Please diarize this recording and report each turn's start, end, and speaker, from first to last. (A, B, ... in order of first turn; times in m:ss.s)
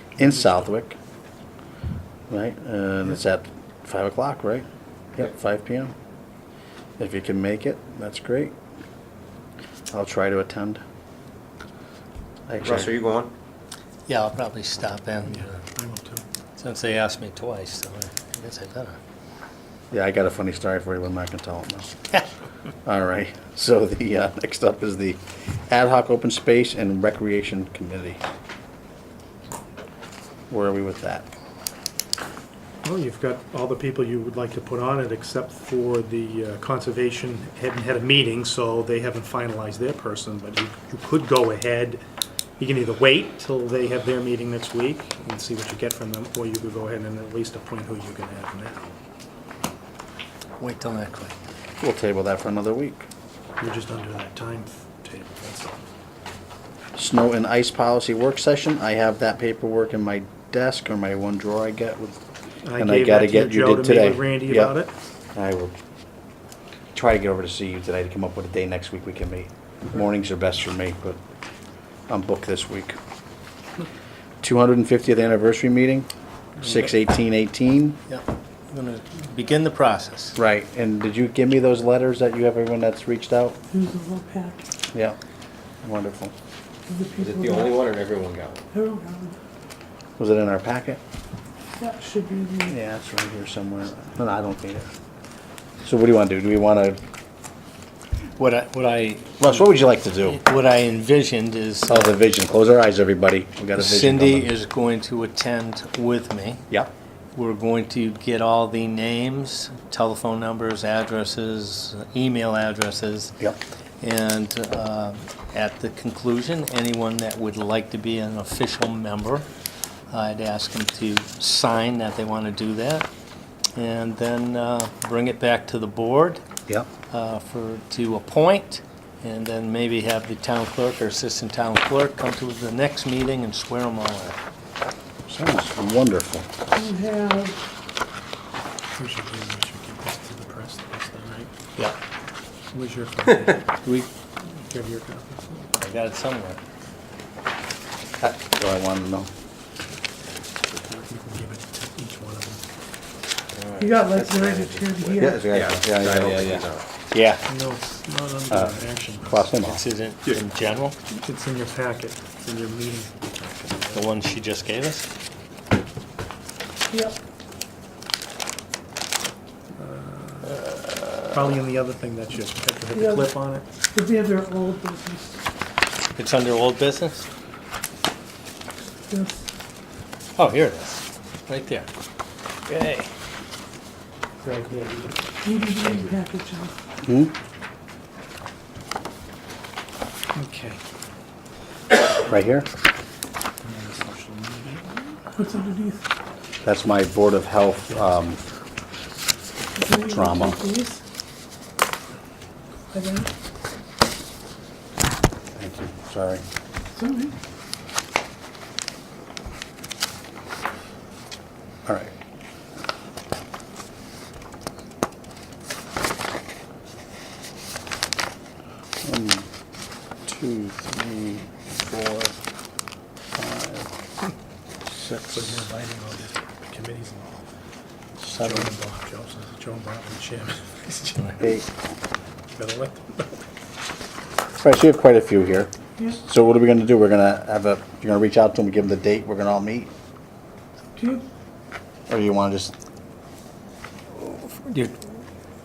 0:00.2-0:01.0 A
0:02.3-0:05.9 A
0:07.0-0:08.5 A
0:09.9-0:10.8 A
0:12.5-0:12.9 A
0:12.6-0:13.3 B
0:14.1-0:15.5 C
0:15.3-0:16.2 D
0:16.6-0:19.0 C
0:19.9-0:21.9 A
0:22.8-0:28.2 A
0:30.5-0:31.3 A
0:32.8-0:42.0 D
0:42.6-0:48.9 D
0:50.6-0:51.3 C
0:51.8-0:53.1 A
0:53.6-0:55.8 D
0:56.9-1:02.2 A
1:02.6-1:04.9 D
1:02.8-1:04.7 A
1:05.3-1:05.7 A
1:06.9-1:11.2 A
1:12.1-1:13.0 A
1:14.4-1:16.1 A
1:16.6-1:18.0 A
1:18.1-1:20.4 C
1:20.4-1:23.6 A
1:23.7-1:24.6 E
1:25.8-1:26.3 A
1:26.9-1:27.8 E
1:27.1-1:28.6 B
1:28.7-1:29.4 E
1:30.2-1:31.0 A
1:31.8-1:32.7 E
1:32.6-1:34.9 A
1:35.8-1:37.0 A
1:38.4-1:39.6 C
1:39.4-1:40.4 A
1:40.2-1:42.2 C
1:41.9-1:44.5 A
1:43.8-1:46.6 C
1:47.3-1:53.4 C
1:54.0-1:59.5 C
2:00.1-2:03.1 C
2:03.7-2:06.4 C
2:07.1-2:14.4 C
2:15.3-2:16.5 A
2:16.7-2:17.6 E
2:19.0-2:21.5 D
2:22.7-2:23.6 D
2:23.8-2:24.1 C
2:24.7-2:25.6 D
2:25.8-2:26.6 C
2:28.2-2:29.3 A
2:30.7-2:32.6 D
2:33.6-2:36.8 B
2:33.8-2:35.4 E
2:35.2-2:36.6 A
2:37.1-2:37.4 C
2:37.5-2:39.4 D
2:39.2-2:39.8 A
2:39.6-2:41.0 C
2:41.1-2:44.0 D
2:43.9-2:45.0 C
2:49.7-2:50.6 D
2:51.3-2:53.7 D
2:52.9-2:53.4 E
2:53.9-2:55.4 E
2:56.2-2:57.3 C
2:59.1-2:59.4 E
3:00.4-3:01.9 C
3:02.7-3:03.1 C
3:04.4-3:06.1 D
3:05.4-3:06.7 E
3:07.0-3:07.3 A
3:10.3-3:10.8 D
3:12.2-3:12.7 A
3:13.6-3:15.1 D
3:15.3-3:16.0 E
3:16.6-3:18.4 A
3:19.8-3:21.0 E
3:19.9-3:20.6 A
3:22.9-3:23.3 E
3:25.6-3:26.4 A
3:26.9-3:27.3 E
3:31.8-3:32.1 A
3:39.0-3:39.5 A
3:40.2-3:42.3 A
3:43.3-3:43.9 A
3:44.9-3:45.5 A
3:45.3-3:47.4 D
3:48.2-3:48.7 A
3:48.3-3:51.4 D
3:51.4-3:51.7 A
3:52.6-3:53.3 D
3:54.6-3:59.9 A
4:01.0-4:01.2 E
4:02.1-4:02.7 A
4:04.2-4:05.0 C